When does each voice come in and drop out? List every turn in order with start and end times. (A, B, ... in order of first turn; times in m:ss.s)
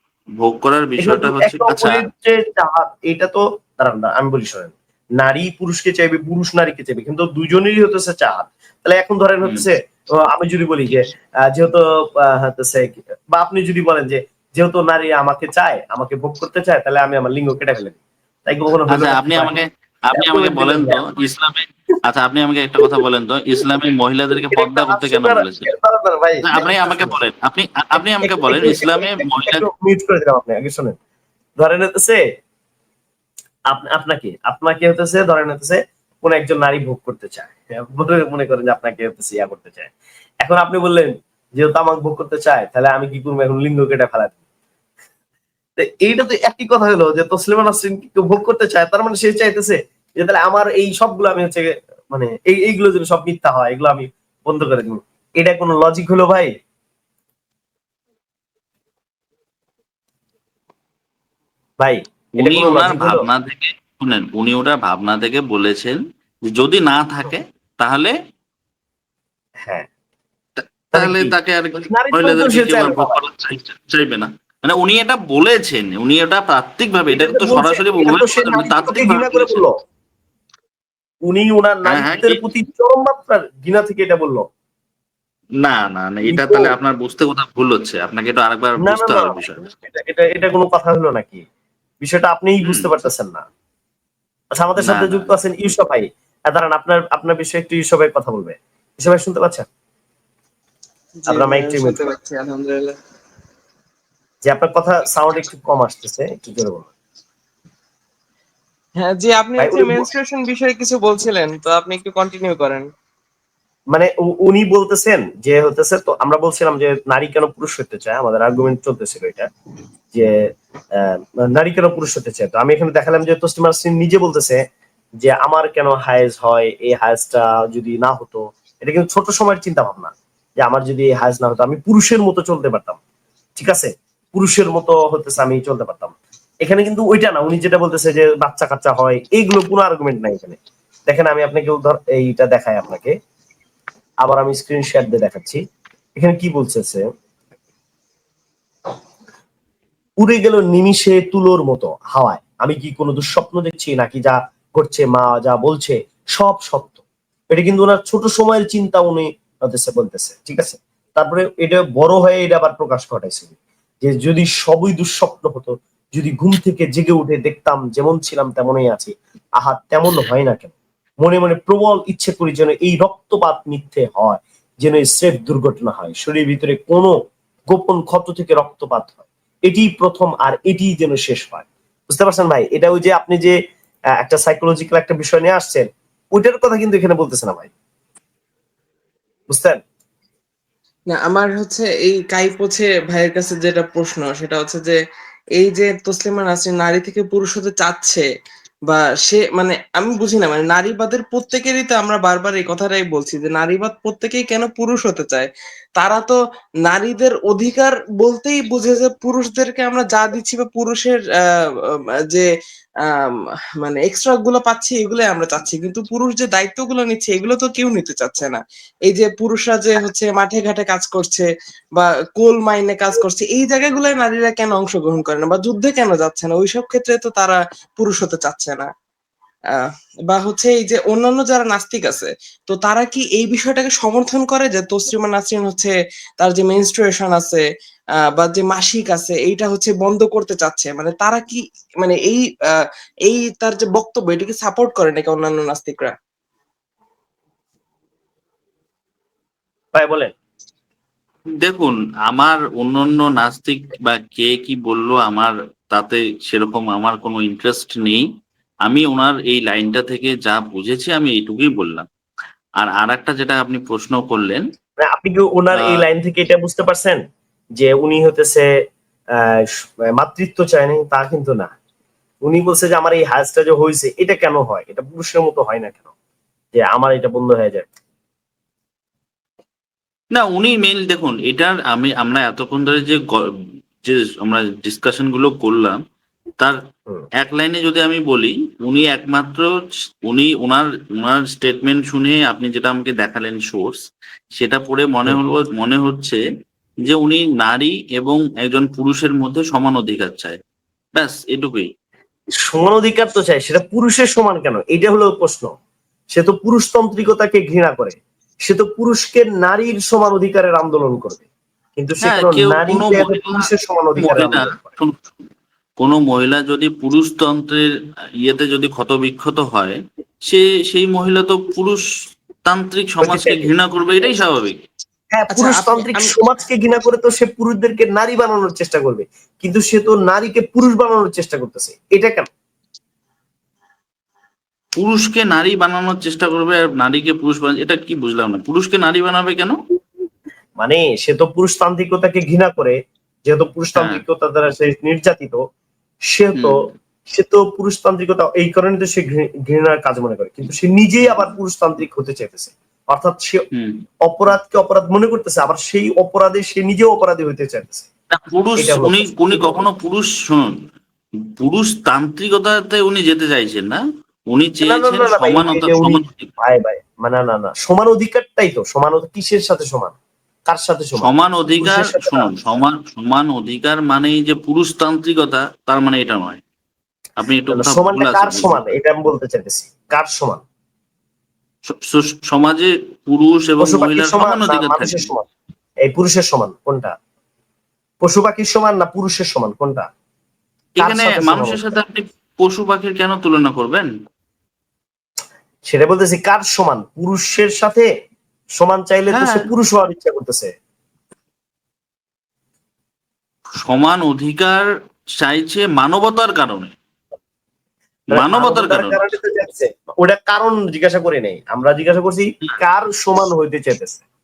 0:00.4-0:02.0 A
0:01.0-0:19.5 B
0:18.9-0:25.7 A
0:20.1-0:21.0 B
0:24.5-0:27.2 B
0:26.4-0:29.6 A
0:28.0-0:31.0 B
0:31.6-0:32.2 B
0:33.7-0:39.9 B
0:40.4-0:44.3 B
0:45.8-0:56.5 B
1:01.8-1:03.2 B
1:02.4-1:08.1 A
1:10.6-1:19.6 A
1:10.9-1:11.3 B
1:11.9-1:13.2 B
1:17.1-1:19.7 B
1:21.3-1:24.4 B
1:21.9-1:22.4 A
1:25.6-1:29.6 A
1:26.3-1:26.7 B
1:28.8-1:31.4 B
1:32.0-1:33.4 B
1:34.6-1:39.6 B
1:34.8-1:35.3 A
1:41.2-1:43.0 C
1:41.3-1:42.0 B
1:44.4-1:46.9 B
1:49.0-1:52.9 C
1:49.6-1:50.0 B
1:53.9-1:59.5 B
2:00.1-2:04.6 B
2:05.2-2:13.0 B
2:13.6-2:23.1 B
2:24.2-2:25.6 B
2:26.2-2:27.0 B
2:30.2-2:37.0 B
2:37.5-2:57.2 B
2:57.7-3:03.5 B
3:04.2-3:07.7 B
3:09.5-3:09.8 B
3:11.1-3:15.0 C
3:15.6-3:18.2 C
3:18.9-3:31.2 C
3:31.9-3:32.4 C
3:33.0-3:48.9 C
3:50.3-3:57.6 C
3:58.4-4:06.1 C
4:09.9-4:10.3 B
4:11.6-4:18.2 A
4:18.8-4:22.0 A
4:22.8-4:24.6 A
4:25.0-4:27.2 B
4:27.8-4:28.7 B
4:30.2-4:31.7 B
4:32.4-4:36.1 B
4:36.7-4:37.8 B
4:40.3-4:43.4 A
4:44.0-4:46.0 A
4:47.4-4:49.7 A
4:50.3-4:54.0 A
4:54.6-4:56.4 A
4:57.1-5:00.6 A
5:01.2-5:01.9 A
5:02.6-5:05.7 B
5:06.3-5:11.4 B
5:12.0-5:14.9 B
5:12.2-5:13.6 A
5:14.2-5:15.2 A
5:16.0-5:17.9 A
5:18.4-5:22.0 A
5:22.6-5:24.8 A
5:23.2-5:23.7 B
5:25.3-5:32.5 B
5:25.5-5:26.3 C
5:35.0-5:39.7 A
5:40.8-5:45.6 B
5:44.0-5:44.2 A
5:46.3-5:46.7 B
5:46.5-5:46.9 A
5:47.3-5:53.6 B
5:53.7-5:54.0 A
5:54.2-5:58.1 B
5:58.3-6:00.7 A
5:58.8-5:59.8 B
6:01.6-6:04.0 A
6:04.5-6:06.5 A
6:04.8-6:10.1 B
6:10.7-6:12.5 B
6:11.2-6:16.6 A
6:17.4-6:18.8 A
6:17.7-6:20.6 B
6:21.9-6:25.3 A
6:23.8-6:25.5 B
6:26.0-6:27.1 B
6:28.2-6:30.1 B
6:31.0-6:31.8 B
6:31.0-6:34.1 A
6:35.9-6:38.1 B
6:38.8-6:40.7 B
6:39.3-6:39.6 A
6:43.8-6:44.8 A
6:45.4-6:46.9 A
6:48.3-6:49.2 A
6:48.3-6:54.2 B